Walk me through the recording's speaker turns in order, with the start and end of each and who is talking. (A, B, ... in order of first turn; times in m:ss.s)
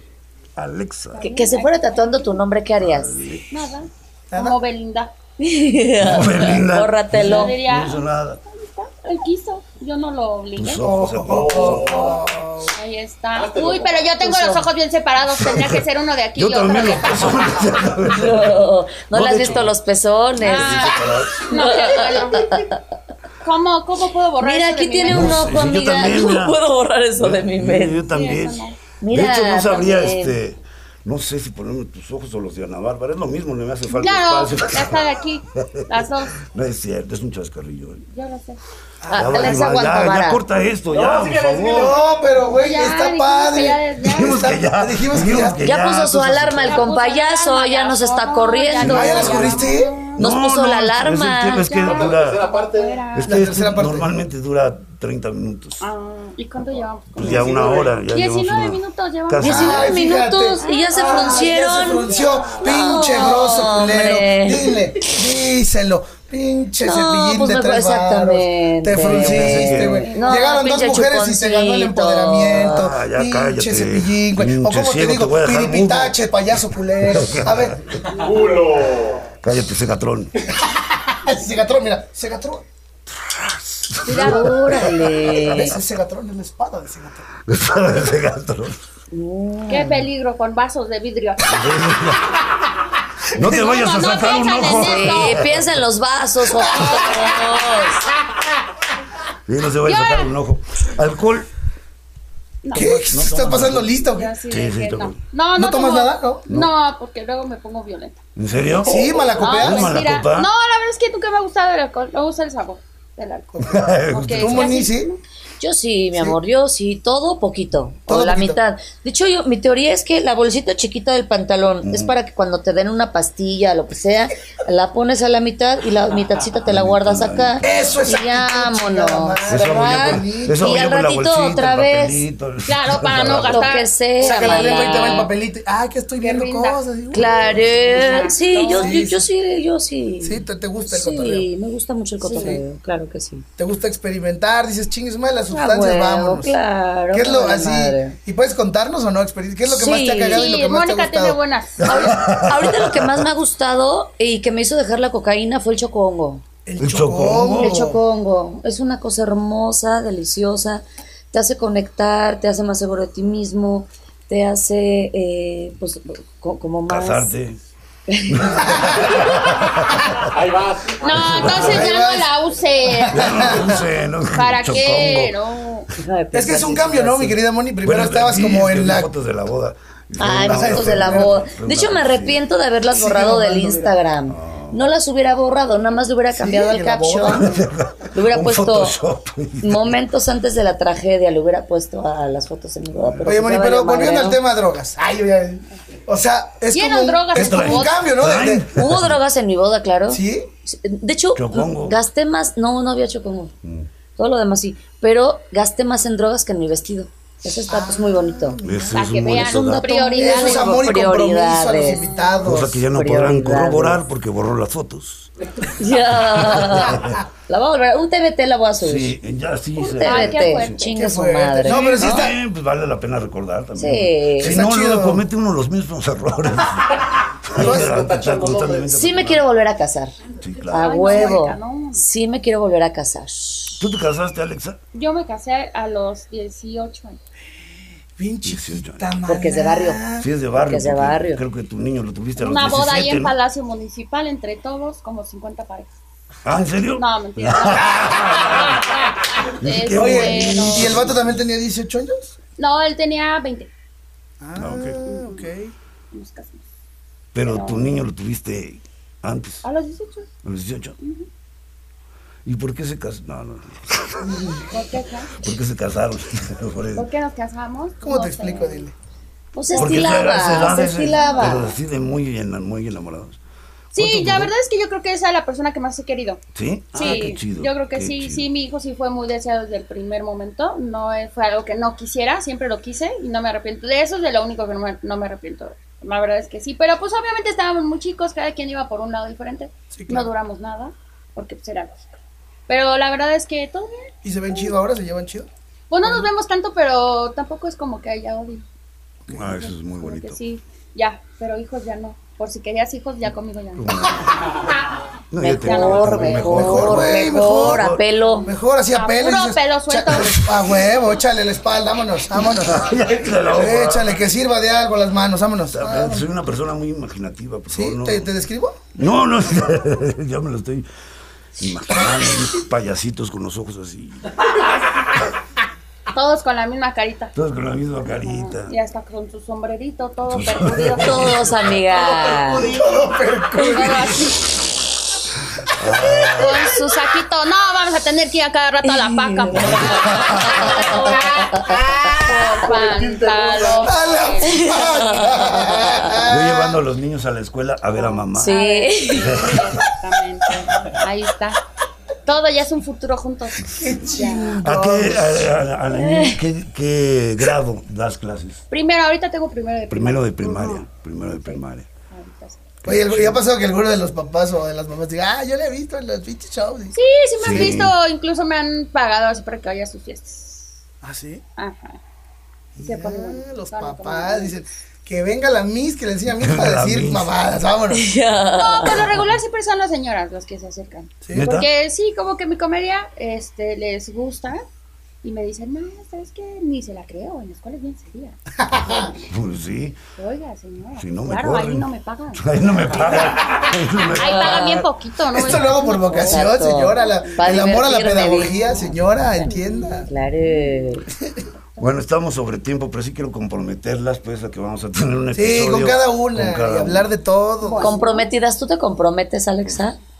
0:00.6-0:01.2 A
0:01.1-0:02.4 B
0:01.2-0:03.1 C
0:02.8-0:03.6 A
0:03.5-0:05.1 B
0:04.3-0:04.6 D
0:05.4-0:07.6 C
0:06.0-0:08.4 A
0:07.1-0:10.9 B
0:10.6-0:12.0 A
0:10.8-0:12.7 D
0:11.2-0:12.2 E
0:12.7-0:17.8 B
0:13.3-0:14.1 E
0:14.2-0:14.7 C
0:15.4-0:15.8 A
0:16.4-0:19.7 A
0:18.1-0:22.8 C
0:20.4-0:21.5 A
0:20.4-0:22.7 B
0:23.4-0:25.5 B
0:24.4-0:28.0 C
0:25.1-0:26.6 A
0:27.2-0:35.8 A
0:28.1-0:28.8 B
0:29.0-0:30.4 C
0:33.9-0:36.4 B
0:36.4-0:38.0 A
0:38.1-0:38.6 B
0:39.0-0:39.7 D
0:39.1-0:40.4 C
0:39.1-0:42.0 A
0:40.9-0:42.0 E
0:41.6-0:45.6 D
0:42.5-0:44.5 B
0:44.0-0:46.9 A
0:45.6-0:49.6 C
0:46.6-0:50.2 B
0:48.8-0:52.5 A
0:48.8-0:50.0 D
0:50.2-0:51.7 C
0:51.6-0:53.5 B
0:51.8-0:53.1 E
0:53.1-0:55.8 A
0:53.2-0:54.1 D
0:55.8-0:59.9 B
0:57.2-0:59.9 A
0:57.2-0:58.0 E
0:59.4-1:02.1 C
0:59.4-1:17.8 D
1:00.6-1:01.5 B
1:02.0-1:02.6 E
1:02.6-1:04.8 C
1:06.8-1:12.9 C
1:08.9-1:10.0 A
1:10.0-1:10.7 B
1:12.5-1:16.2 A
1:17.0-1:17.7 A
1:18.1-1:19.3 E
1:19.4-1:20.3 A
1:21.1-1:22.6 D
1:23.2-1:25.1 A
1:24.0-1:24.6 B
1:24.1-1:25.8 C
1:25.2-1:27.2 D
1:27.5-1:28.8 A
1:29.1-1:30.1 C
1:29.7-1:31.7 B
1:31.4-1:32.3 A
1:33.3-1:35.7 A
1:33.4-1:35.4 B
1:34.8-1:38.1 C
1:36.6-1:37.2 D
1:39.5-1:41.5 A
1:39.8-1:40.3 B
1:42.6-1:42.9 B
1:42.7-1:44.3 D
1:42.7-1:45.2 A
1:44.0-1:48.2 B
1:45.5-1:46.4 D
1:48.4-1:50.5 A
1:48.8-1:50.0 D
1:49.4-1:53.5 B
1:53.5-1:55.1 D
1:53.6-1:54.7 A
1:54.0-1:55.2 B
1:55.6-2:12.2 C
1:58.1-1:58.6 D
2:01.8-2:02.1 A
2:06.6-2:08.0 A
2:07.6-2:10.7 D
2:09.5-2:13.8 A
2:12.7-2:15.0 B
2:13.4-2:15.3 C
2:14.2-2:17.5 D
2:16.2-2:19.0 B
2:17.1-2:23.4 C
2:17.3-2:17.8 A
2:18.7-2:19.3 D
2:20.2-2:21.5 D
2:22.2-2:22.6 B
2:22.3-2:22.6 D
2:23.6-2:26.5 D
2:25.5-2:28.2 C
2:27.1-2:32.1 D
2:29.6-2:30.4 C
2:30.3-2:32.2 B
2:31.8-2:33.1 A
2:31.9-2:36.4 C
2:36.6-2:38.0 D
2:36.8-2:37.8 A
2:37.5-2:47.3 C
2:46.9-2:47.6 A
2:48.1-2:49.1 C
2:48.3-2:50.3 A
2:48.7-2:49.2 D
2:50.3-2:51.8 E
2:51.0-2:53.7 B
2:51.1-2:51.9 A
2:51.5-2:52.3 D
2:53.0-2:53.8 D
2:53.1-2:55.4 A
2:54.3-2:55.9 B
2:56.0-2:57.4 C
2:56.3-2:59.1 D
2:57.8-3:02.4 A
3:00.2-3:07.5 C
3:00.4-3:01.4 D
3:02.9-3:03.9 D
3:04.3-3:04.8 A
3:06.3-3:07.6 D
3:07.3-3:10.0 A
3:08.1-3:08.9 C
3:09.6-3:14.4 C
3:12.9-3:13.4 A
3:13.2-3:18.7 D
3:16.7-3:18.0 B
3:17.3-3:19.2 A
3:18.7-3:23.5 C
3:20.1-3:20.5 D
3:21.3-3:22.0 A
3:24.2-3:28.6 C
3:27.6-3:29.1 D
3:28.6-3:29.9 A
3:28.9-3:30.8 B
3:29.4-3:32.0 C
3:30.1-3:32.8 D
3:31.9-3:32.4 B
3:32.4-3:35.3 A
3:32.9-3:34.0 C
3:35.8-3:39.2 C
3:36.3-3:37.2 A
3:38.8-3:40.8 A
3:39.8-3:41.0 B
3:40.0-3:42.3 C
3:40.9-3:42.4 D
3:41.6-3:49.4 A
3:43.8-3:44.6 C
3:44.4-3:45.2 D
3:47.5-3:48.9 E
3:47.6-3:48.1 D
3:48.9-3:50.1 C
3:50.4-3:51.3 A
3:50.7-3:53.8 C
3:50.7-3:52.0 B
3:53.8-3:54.8 A
3:54.9-3:57.2 B
3:58.2-4:00.3 D
3:58.4-3:59.1 A
3:59.2-4:00.0 C
4:00.2-4:03.3 A
4:00.5-4:01.4 C
4:02.4-4:05.9 B
4:06.4-4:08.8 A
4:06.9-4:08.8 B
4:09.4-4:11.4 A
4:09.5-4:11.0 B
4:09.9-4:12.4 D
4:12.6-4:13.7 B
4:14.4-4:15.7 D
4:14.6-4:15.0 A
4:15.0-4:15.5 B
4:16.1-4:16.6 B
4:17.3-4:19.6 A
4:17.4-4:17.9 B
4:19.6-4:20.3 B
4:20.4-4:21.0 A
4:21.0-4:21.3 B
4:22.4-4:24.7 A
4:24.4-4:24.6 C
4:24.7-4:25.3 B
4:25.4-4:27.0 A
4:26.9-4:28.9 B
4:28.0-4:28.9 D
4:29.5-4:31.7 C
4:29.7-4:30.6 B
4:29.7-4:33.4 A
4:33.9-4:34.5 A
4:33.9-4:36.4 B
4:36.5-4:38.4 A
4:36.9-4:52.2 B
4:49.9-4:50.3 D
4:52.7-4:54.7 B
4:54.2-4:55.5 D
4:55.9-4:58.6 B
4:59.3-4:59.6 D
4:59.3-5:00.4 A
4:59.6-5:04.1 B
5:03.8-5:04.7 A
5:05.3-5:08.0 A
5:05.4-5:06.8 B
5:05.4-5:08.5 C
5:06.4-5:07.9 D
5:08.4-5:12.9 D
5:08.9-5:10.5 B
5:12.5-5:14.2 A
5:13.5-5:16.3 D
5:15.7-5:18.3 A
5:17.7-5:18.8 D
5:18.9-5:20.9 A
5:21.6-5:24.3 A
5:26.1-5:27.3 B
5:27.3-5:28.7 A
5:28.2-5:31.4 B
5:30.3-5:31.8 A
5:31.0-5:32.7 C
5:31.9-5:34.3 D
5:33.5-5:34.7 B
5:35.7-5:36.7 A
5:36.0-5:45.2 B
5:38.8-5:42.0 C
5:39.5-5:41.0 A
5:42.0-5:43.9 E
5:43.8-5:46.8 D
5:44.4-5:46.2 C
5:46.2-5:48.5 A
5:47.9-5:51.6 B
5:48.4-5:49.4 C
5:49.2-5:49.9 A
5:52.2-5:54.6 B
5:53.7-5:55.5 D
5:54.6-5:58.6 A
5:55.9-5:56.4 C
5:58.7-6:00.8 B
5:59.9-6:01.9 A
6:01.4-6:02.6 B
6:02.8-6:03.4 A
6:02.8-6:06.9 D
6:06.9-6:10.7 B
6:07.4-6:07.9 A
6:07.5-6:07.8 D
6:11.0-6:11.4 D
6:11.6-6:12.0 B
6:12.8-6:18.0 D
6:12.8-6:14.6 B
6:16.3-6:17.3 A
6:17.9-6:19.2 C
6:18.6-6:24.6 B
6:21.3-6:21.7 A
6:25.2-6:28.4 B
6:28.6-6:29.1 D
6:29.3-6:30.0 A
6:30.2-6:32.4 B
6:31.0-6:34.8 A
6:34.1-6:37.7 B
6:35.3-6:40.1 D
6:36.2-6:38.6 C
6:38.6-6:38.9 B
6:39.6-6:39.9 B
6:39.7-6:41.1 C
6:40.4-6:40.9 B
6:41.1-6:41.4 D
6:41.8-6:47.1 A
6:45.3-6:47.9 D
6:47.6-6:48.3 B
6:47.8-6:50.0 C